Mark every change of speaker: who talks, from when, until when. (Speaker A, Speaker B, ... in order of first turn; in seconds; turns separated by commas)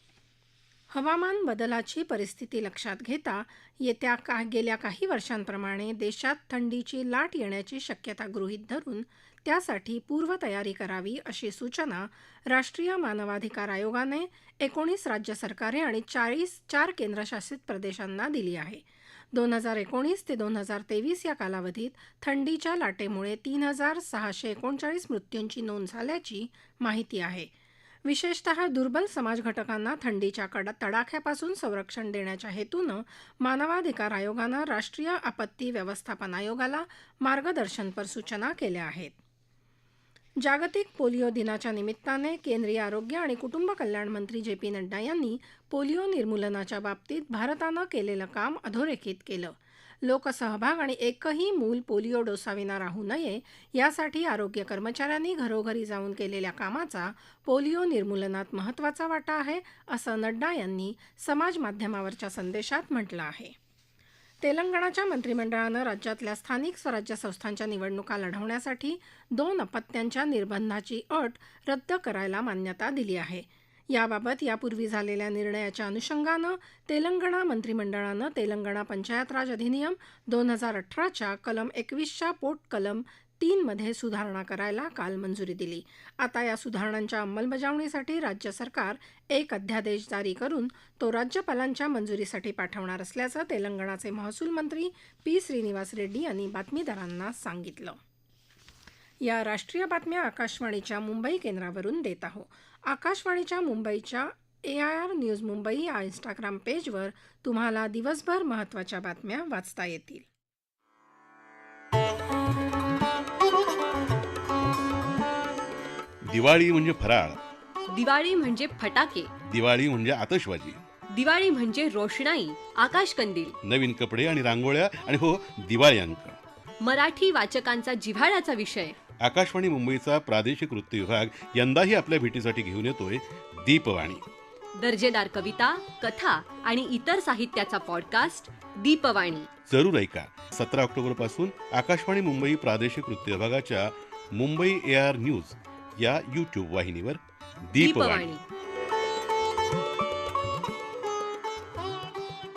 Speaker A: 0.9-27.5, Speaker A: 28.0-39.2, Speaker A: 40.4-63.5, Speaker A: 64.4-98.0, Speaker A: 99.2-110.2, Speaker B: 116.2-117.4, Speaker C: 117.9-119.3, Speaker B: 119.5-120.8, Speaker C: 121.1-123.5, Speaker B: 123.6-126.4, Speaker C: 126.8-129.0, Speaker B: 129.2-134.2, Speaker C: 134.7-139.5, Speaker B: 139.7-148.3, Speaker C: 147.8-148.4